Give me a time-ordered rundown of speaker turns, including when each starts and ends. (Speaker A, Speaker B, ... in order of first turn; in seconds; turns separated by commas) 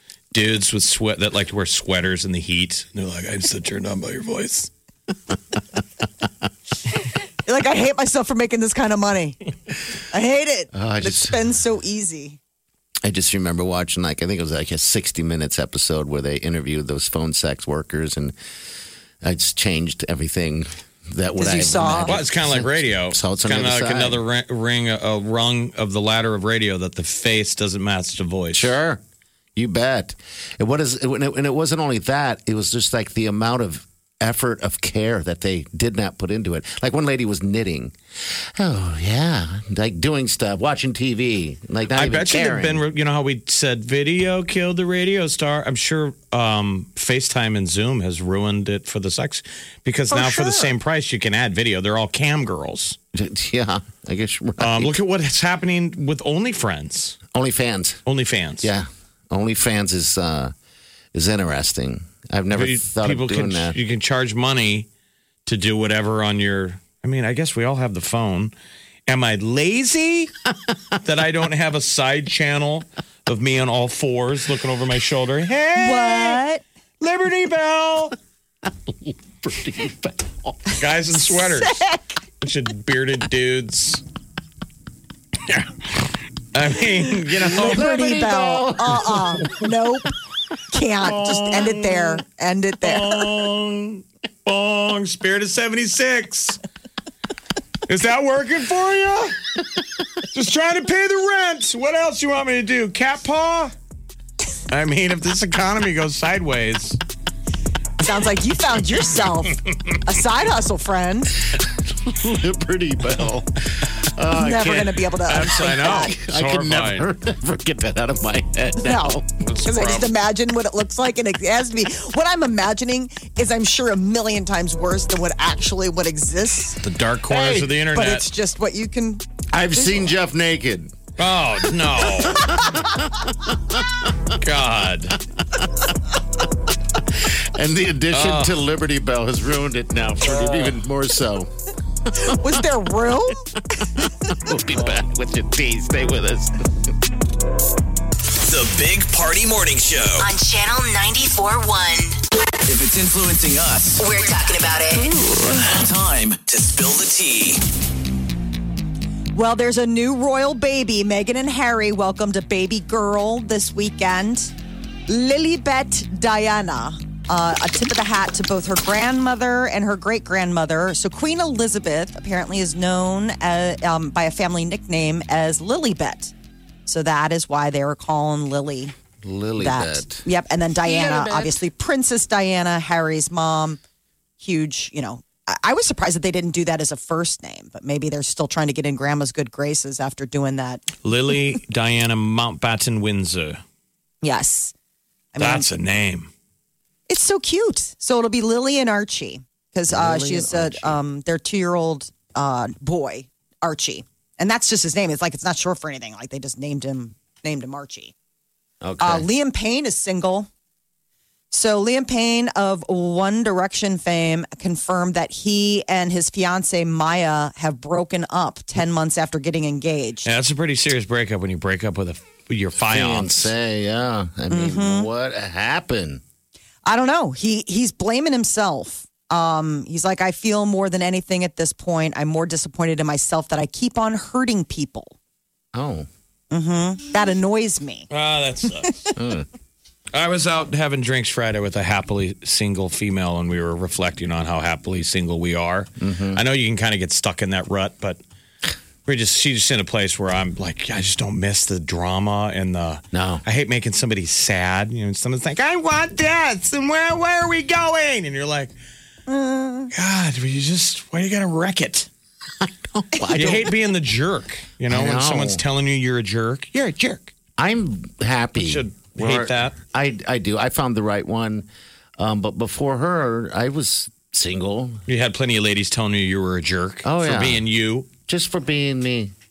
Speaker A: 0.3-4.7, Speaker B: 7.5-9.4, Speaker B: 10.1-12.4, Speaker C: 10.7-11.5, Speaker C: 13.0-18.3, Speaker C: 19.2-24.2, Speaker B: 21.4-22.1, Speaker A: 22.1-28.7, Speaker C: 28.5-29.0, Speaker C: 29.6-42.8, Speaker A: 41.9-53.0, Speaker B: 50.1-50.7, Speaker C: 53.1-54.9, Speaker A: 54.6-57.2, Speaker C: 57.3-58.0, Speaker A: 58.1-58.7, Speaker C: 58.6-60.5, Speaker C: 61.1-63.8, Speaker A: 62.5-64.9, Speaker A: 65.5-68.5, Speaker A: 69.1-70.3, Speaker A: 71.0-76.4, Speaker B: 75.8-76.6, Speaker A: 77.0-78.2, Speaker C: 78.9-80.5, Speaker A: 80.8-81.8, Speaker B: 81.1-82.1, Speaker A: 82.4-84.0, Speaker A: 85.5-87.8, Speaker C: 87.5-89.4, Speaker B: 87.5-90.1, Speaker B: 90.7-93.2, Speaker A: 91.0-92.2, Speaker A: 92.8-96.6, Speaker A: 97.9-99.4, Speaker A: 100.3-103.7, Speaker A: 104.7-107.0, Speaker B: 108.0-111.4, Speaker C: 111.6-119.3, Speaker B: 114.3-116.1, Speaker A: 115.2-117.1, Speaker B: 118.8-126.8, Speaker A: 119.4-120.1, Speaker A: 126.8-128.3, Speaker C: 127.3-127.8, Speaker B: 127.9-129.2, Speaker C: 129.5-131.0, Speaker B: 129.8-130.1, Speaker A: 131.2-132.5, Speaker C: 132.2-134.1, Speaker A: 134.3-135.2, Speaker C: 137.1-141.5, Speaker A: 138.1-138.6, Speaker A: 140.3-140.7, Speaker C: 142.2-142.6, Speaker B: 142.2-143.4, Speaker C: 143.7-146.7, Speaker D: 148.4-150.3, Speaker E: 150.2-152.2, Speaker D: 152.6-154.0, Speaker E: 154.0-155.2, Speaker D: 155.3-157.6, Speaker B: 159.3-164.5, Speaker B: 165.1-176.3, Speaker B: 176.8-178.9, Speaker C: 179.2-180.2, Speaker B: 179.6-183.8, Speaker C: 180.8-181.5, Speaker B: 184.4-190.8, Speaker A: 191.0-193.6, Speaker B: 194.2-194.7, Speaker B: 195.3-195.7, Speaker A: 195.4-196.3, Speaker B: 197.1-208.1, Speaker C: 199.9-201.0, Speaker C: 208.8-209.3, Speaker B: 209.0-210.5, Speaker B: 211.5-220.3, Speaker A: 220.2-223.5, Speaker C: 222.9-226.2, Speaker B: 224.5-225.1, Speaker B: 226.8-235.1, Speaker C: 235.7-236.1, Speaker B: 236.5-238.1, Speaker A: 238.1-239.1, Speaker C: 239.2-239.5, Speaker A: 240.1-248.2, Speaker C: 246.0-246.4, Speaker A: 249.1-258.7, Speaker C: 253.1-253.4, Speaker B: 259.3-259.9, Speaker A: 259.9-262.1, Speaker C: 262.6-263.7, Speaker A: 263.3-267.3, Speaker C: 264.9-265.6, Speaker C: 267.6-275.0, Speaker A: 268.6-269.8, Speaker A: 275.1-278.1, Speaker C: 277.0-277.6, Speaker C: 278.2-279.3